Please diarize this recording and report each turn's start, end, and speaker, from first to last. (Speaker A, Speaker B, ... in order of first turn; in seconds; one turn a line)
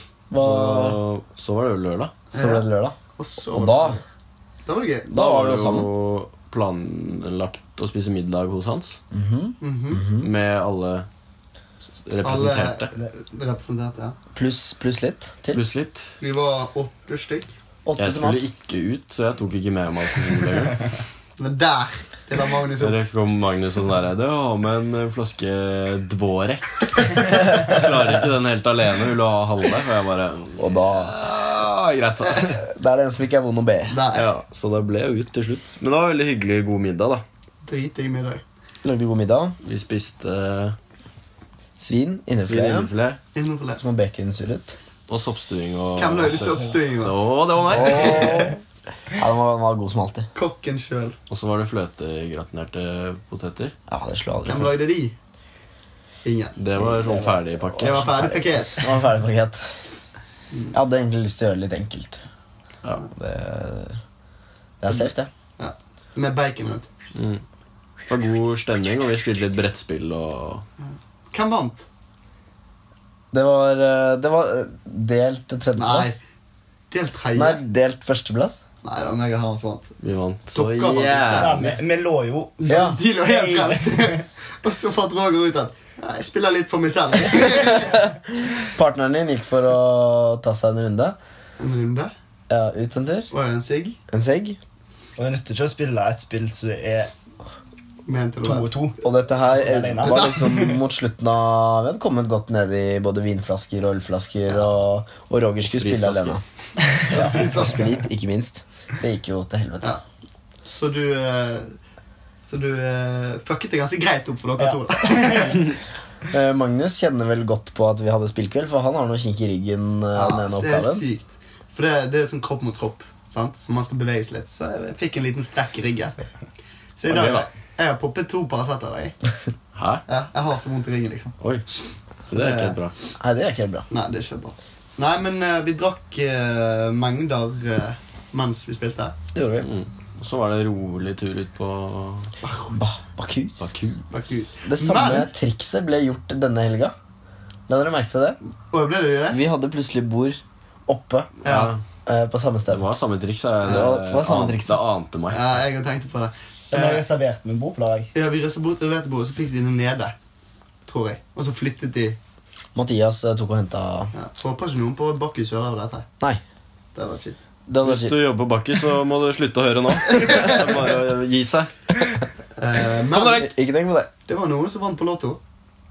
Speaker A: 0.3-1.0
Speaker B: 0.3-2.1
Speaker C: 2.3-4.0
Speaker A: 2.3-3.0
Speaker A: 3.5-4.0
Speaker C: 4.6-5.1
Speaker A: 5.1-5.9
Speaker B: 5.1-9.0
Speaker A: 9.1-10.3
Speaker C: 9.6-10.0
Speaker B: 10.2-11.1
Speaker B: 11.9-12.9
Speaker C: 12.2-14.2
Speaker A: 14.3-15.6
Speaker B: 15.5-16.2
Speaker C: 16.2-17.5
Speaker A: 17.8-18.5
Speaker B: 18.0-20.9
Speaker C: 21.4-23.0
Speaker B: 22.8-32.6
Speaker A: 30.6-31.1
Speaker A: 32.5-34.0
Speaker C: 33.9-34.3
Speaker B: 34.1-37.2
Speaker C: 37.6-38.4
Speaker A: 38.8-39.5
Speaker B: 39.6-40.8
Speaker A: 41.8-42.9
Speaker B: 42.4-43.2
Speaker C: 43.3-43.8
Speaker A: 43.8-44.8
Speaker B: 45.1-48.5
Speaker C: 46.0-47.1
Speaker A: 47.7-48.6
Speaker C: 47.8-48.5
Speaker A: 49.2-50.3
Speaker C: 50.3-51.1
Speaker B: 51.3-53.7
Speaker A: 53.9-54.8
Speaker C: 54.5-55.1
Speaker C: 56.2-56.6
Speaker B: 56.6-58.4
Speaker A: 56.8-59.7
Speaker C: 57.8-58.9
Speaker A: 60.7-62.2
Speaker A: 63.1-64.0
Speaker A: 64.8-65.3
Speaker C: 65.6-66.9
Speaker B: 67.1-67.4
Speaker B: 68.1-70.6
Speaker C: 70.8-71.8
Speaker A: 73.3-76.2
Speaker C: 75.8-76.2
Speaker C: 76.9-77.6
Speaker A: 77.3-78.6
Speaker C: 78.8-80.0
Speaker B: 80.0-81.7
Speaker C: 80.5-81.8
Speaker D: 81.3-84.2
Speaker C: 82.6-88.0
Speaker A: 82.7-83.0
Speaker A: 87.8-88.0
Speaker A: 88.5-91.2
Speaker C: 91.6-92.1
Speaker A: 92.5-93.3
Speaker C: 93.3-94.0
Speaker A: 94.1-94.6
Speaker D: 95.2-97.1
Speaker C: 98.0-98.7
Speaker D: 98.4-100.7
Speaker A: 99.0-106.4
Speaker C: 100.0-100.8
Speaker C: 104.5-104.8
Speaker B: 105.6-106.4
Speaker C: 107.0-107.9
Speaker A: 107.0-109.9
Speaker C: 110.6-111.7
Speaker C: 112.4-115.8
Speaker D: 114.6-115.5
Speaker A: 116.3-121.0
Speaker C: 120.1-126.2
Speaker C: 127.0-129.2
Speaker B: 127.1-127.5
Speaker B: 129.7-130.0
Speaker C: 130.1-131.3
Speaker B: 132.3-132.9
Speaker C: 132.3-132.8
Speaker A: 133.2-133.9
Speaker C: 133.9-139.1
Speaker A: 139.3-139.7
Speaker B: 139.6-142.3
Speaker C: 142.4-142.7
Speaker A: 142.7-143.7
Speaker B: 143.6-144.1
Speaker C: 144.1-145.3
Speaker A: 144.7-146.9
Speaker A: 147.7-148.4
Speaker C: 148.7-149.4
Speaker A: 149.3-152.8
Speaker B: 151.4-151.8
Speaker C: 151.4-151.7
Speaker B: 152.7-155.6
Speaker C: 153.6-153.9
Speaker A: 153.6-154.8
Speaker C: 155.3-157.0
Speaker D: 156.7-158.1
Speaker C: 158.1-160.1
Speaker C: 160.8-162.2
Speaker A: 162.7-164.1
Speaker C: 164.1-166.1
Speaker C: 166.9-167.4
Speaker A: 167.7-168.2
Speaker B: 167.8-171.8
Speaker C: 170.1-170.8
Speaker C: 172.6-173.5
Speaker B: 173.1-173.5
Speaker A: 173.2-174.1
Speaker C: 174.3-175.4